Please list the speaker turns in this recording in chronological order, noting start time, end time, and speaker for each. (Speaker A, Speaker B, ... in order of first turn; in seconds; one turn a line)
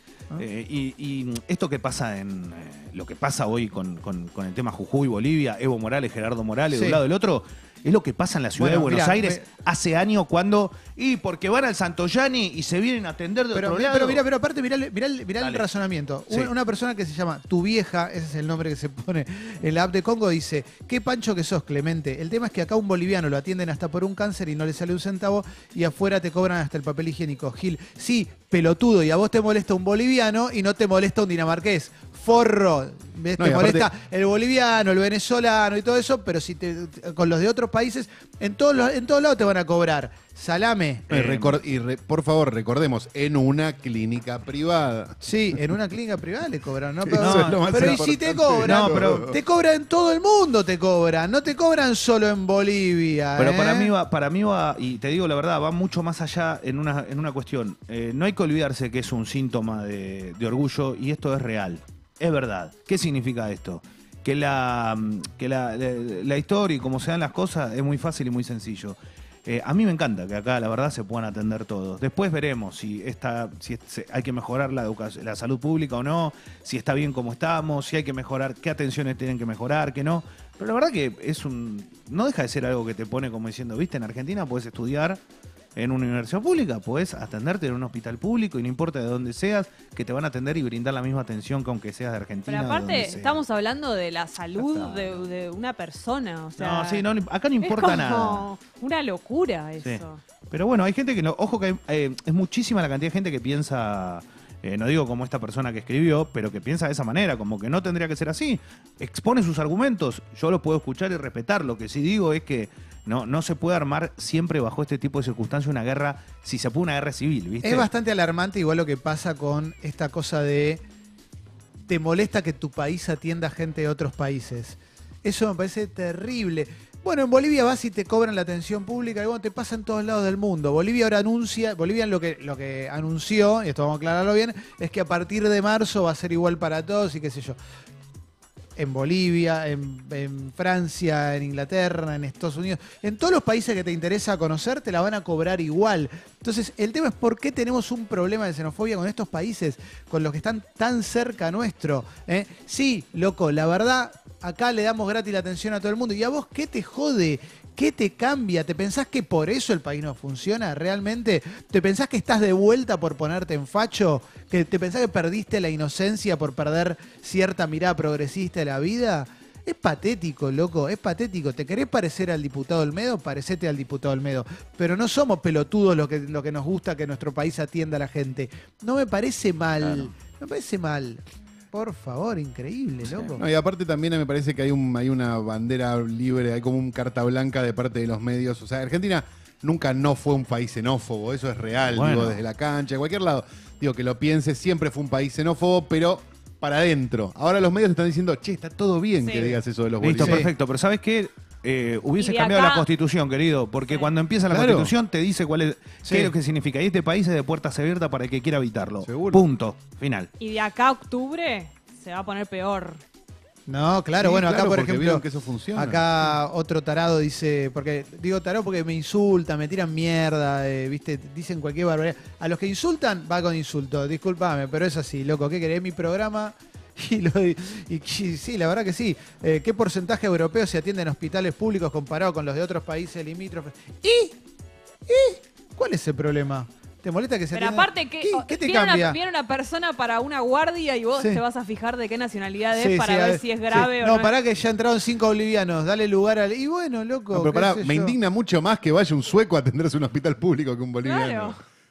Speaker A: 0.4-14.2
Speaker B: 6.7-7.0
Speaker B: 8.6-9.4
Speaker B: 13.5-41.1
Speaker C: 33.4-33.9
Speaker C: 41.1-45.6
Speaker A: 41.1-41.6
Speaker B: 45.2-53.9
Speaker C: 47.0-49.4
Speaker A: 47.2-48.0
Speaker A: 48.6-49.3
Speaker A: 53.4-85.2
Speaker A: 85.8-93.4
Speaker D: 92.5-97.0
Speaker A: 94.5-95.2
Speaker A: 96.6-98.5
Speaker D: 97.6-100.2
Speaker A: 99.8-117.9
Speaker B: 117.6-120.8
Speaker B: 121.9-137.6
Speaker B: 138.8-183.4
Speaker A: 179.8-180.1
Speaker C: 183.3-200.5
Speaker A: 191.9-192.4
Speaker D: 199.2-199.6
Speaker A: 200.0-210.3
Speaker B: 200.2-200.5
Speaker D: 202.2-202.9
Speaker C: 204.5-204.9
Speaker B: 206.1-206.3
Speaker C: 209.0-209.4
Speaker D: 210.4-213.0
Speaker B: 213.7-234.4
Speaker C: 214.2-216.0
Speaker B: 235.1-239.2
Speaker D: 237.5-244.3
Speaker B: 242.7-248.2
Speaker C: 247.3-251.6
Speaker D: 251.0-251.6